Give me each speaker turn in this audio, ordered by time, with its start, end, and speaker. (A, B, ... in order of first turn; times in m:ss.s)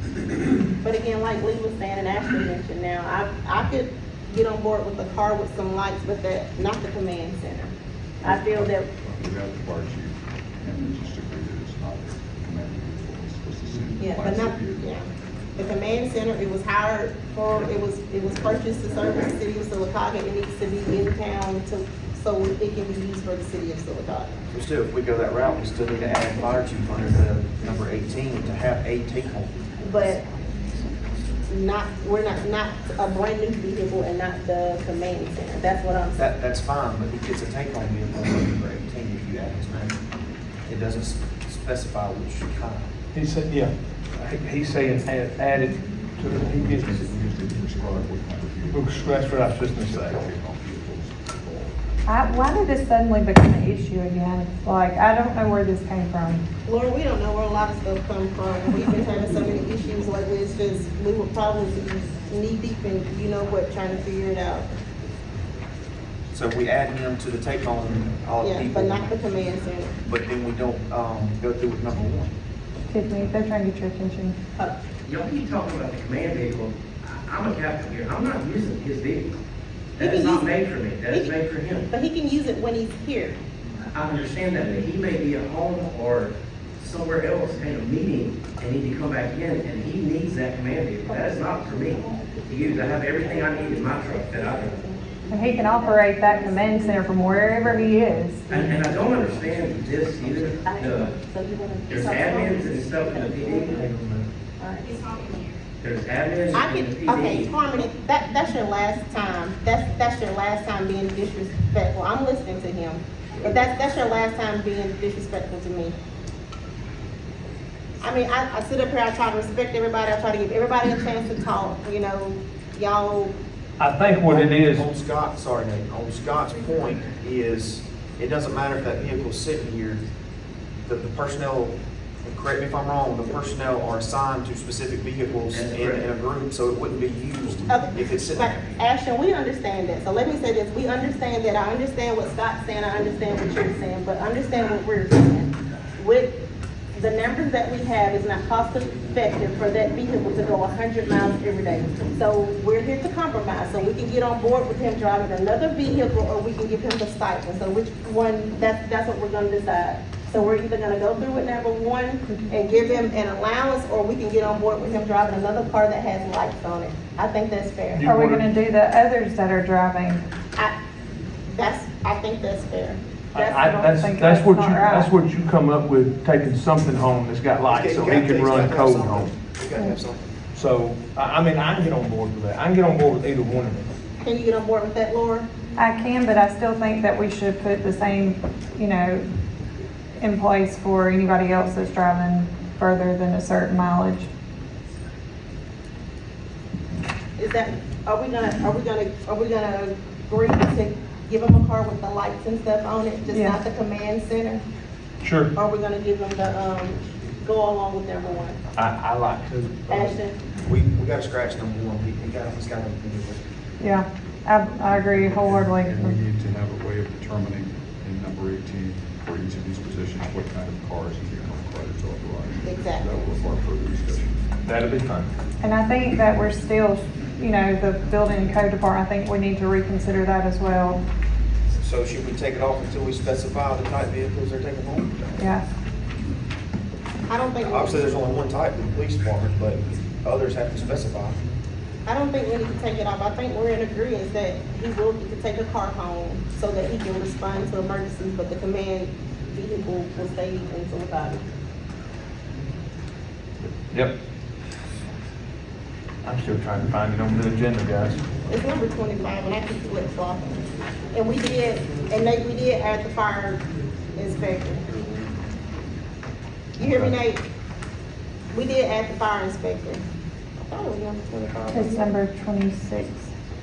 0:00.8-0:07.7 A
0:08.2-0:08.9 A
0:08.2-0:14.9 B
0:14.0-0:24.3 A
0:24.5-0:29.5 C
0:29.8-0:30.2 A
0:31.5-0:36.3 A
0:36.2-0:40.0 C
0:40.7-0:42.9 C
0:43.1-0:47.1 D
0:46.5-0:51.7 B
0:48.7-0:50.2 D
0:52.1-0:56.4 E
0:56.6-1:04.7 A
1:06.3-1:09.2 C
1:08.4-1:10.0 A
1:10.0-1:12.3 C
1:12.9-1:14.4 E
1:14.5-1:14.8 A
1:15.1-1:19.3 F
1:20.0-1:21.9 F
1:20.0-1:21.4 A
1:21.9-1:23.4 A
1:23.9-1:34.8 F
1:34.5-1:37.8 A
1:35.3-1:38.4 E
1:38.5-1:41.2 F
1:40.6-1:43.8 A
1:41.9-1:43.8 F
1:43.7-1:44.3 D
1:44.6-1:45.4 A
1:45.8-1:47.5 F
1:46.5-1:56.0 A
1:58.0-2:03.3 A
2:03.8-2:04.8 D
2:04.2-2:10.0 C
2:10.9-2:18.8 C
2:15.5-2:16.0 F
2:17.7-2:26.4 A
2:27.0-2:48.0 A
2:42.3-2:43.0 E
2:47.9-2:48.4 D
2:48.0-2:50.2 E
2:51.5-2:53.9 A
2:53.3-2:59.3 D
2:53.6-2:55.1 E
2:57.7-3:00.2 C
3:00.5-3:03.9 D
3:04.2-3:05.5 A
3:05.8-3:09.2 E
3:10.2-3:14.3 E
3:17.4-3:24.6 A
3:23.3-3:23.6 E
3:25.2-3:25.5 D
3:25.5-3:28.6 A
3:28.8-3:30.1 D
3:29.9-3:30.4 A
3:30.6-3:33.4 C
3:33.8-3:36.2 E
3:35.1-3:44.5 B
3:42.6-3:43.3 A
3:44.6-3:45.3 D
3:45.6-3:51.0 E
3:51.8-3:55.4 C
3:55.4-3:55.6 E
3:57.3-3:58.2 A
3:57.6-4:01.4 C
4:02.1-4:11.4 A
4:16.2-4:18.2 D
4:18.5-4:20.6 A
4:21.1-4:23.6 A
4:24.2-4:24.9 A
4:26.8-4:27.4 A
4:26.8-4:27.1 D
4:28.5-4:30.0 A
4:30.6-4:32.2 A
4:31.7-4:33.3 E